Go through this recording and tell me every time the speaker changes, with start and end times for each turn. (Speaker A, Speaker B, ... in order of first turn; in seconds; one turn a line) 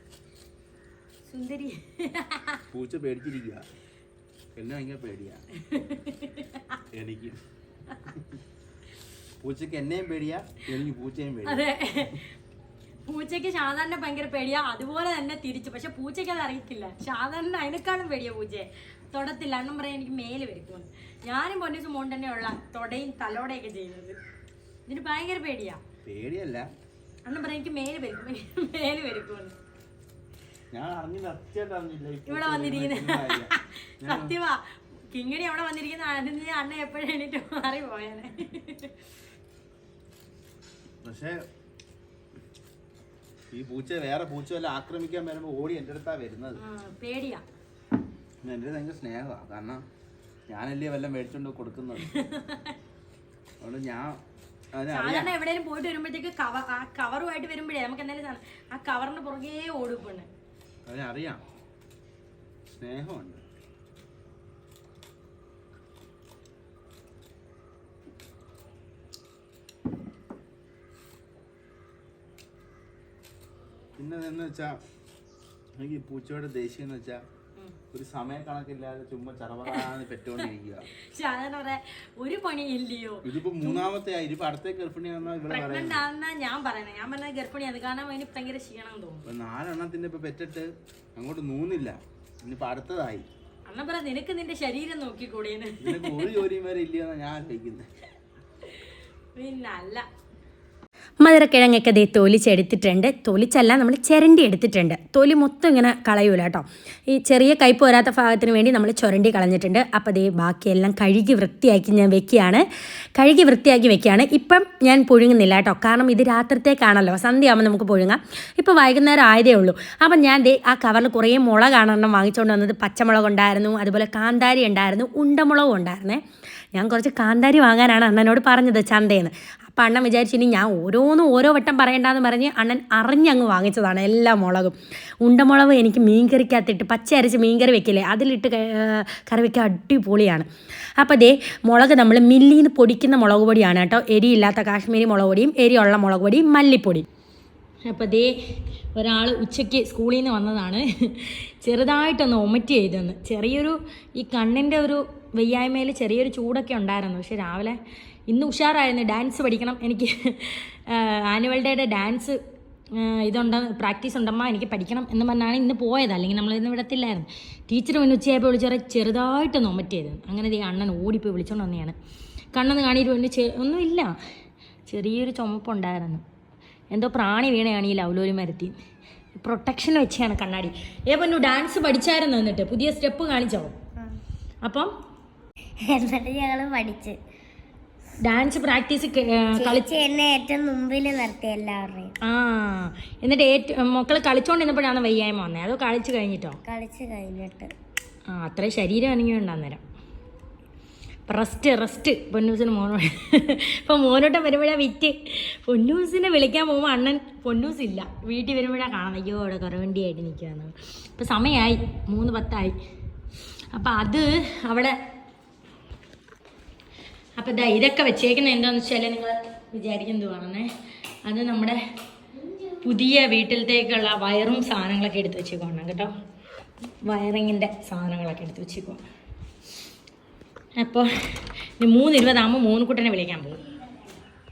Speaker A: 1.3-2.6
Speaker B: 2.7-3.6
Speaker B: 4.5-5.4
Speaker A: 5.7-6.4
Speaker B: 6.9-7.4
Speaker B: 9.4-12.2
Speaker A: 11.4-12.2
Speaker A: 13.1-24.2
Speaker A: 24.9-25.8
Speaker B: 26.0-26.7
Speaker A: 27.2-29.5
Speaker B: 30.7-34.3
Speaker A: 32.3-38.9
Speaker B: 41.0-41.4
Speaker B: 43.5-46.6
Speaker A: 46.6-47.4
Speaker B: 48.4-49.8
Speaker B: 50.5-52.1
Speaker A: 52.2-52.6
Speaker B: 53.6-54.2
Speaker B: 54.7-55.3
Speaker A: 54.9-60.3
Speaker B: 60.9-61.4
Speaker B: 62.7-63.4
Speaker B: 74.0-74.8
Speaker B: 75.8-77.2
Speaker B: 77.9-80.9
Speaker A: 81.1-83.9
Speaker B: 83.2-86.0
Speaker A: 85.5-89.3
Speaker B: 89.2-93.2
Speaker A: 93.7-96.4
Speaker B: 95.8-97.9
Speaker A: 99.3-100.0
Speaker C: 101.2-112.6
Speaker C: 113.2-126.2
Speaker C: 126.7-140.4
Speaker C: 141.0-147.0
Speaker A: 147.8-148.3
Speaker A: 148.9-162.4
Speaker A: 162.9-171.9
Speaker A: 172.5-174.1
Speaker A: 174.9-176.2
Speaker A: 176.9-178.7
Speaker A: 179.3-183.7
Speaker A: 184.6-184.9
Speaker D: 185.8-187.2
Speaker A: 188.2-189.8
Speaker D: 189.5-192.1
Speaker A: 192.2-196.6
Speaker D: 196.6-197.7
Speaker A: 198.3-199.8
Speaker A: 201.3-212.8
Speaker A: 213.7-215.0
Speaker A: 217.4-220.7
Speaker A: 221.2-221.8
Speaker A: 222.8-226.1
Speaker A: 227.0-229.0
Speaker A: 230.8-231.1
Speaker A: 231.8-233.6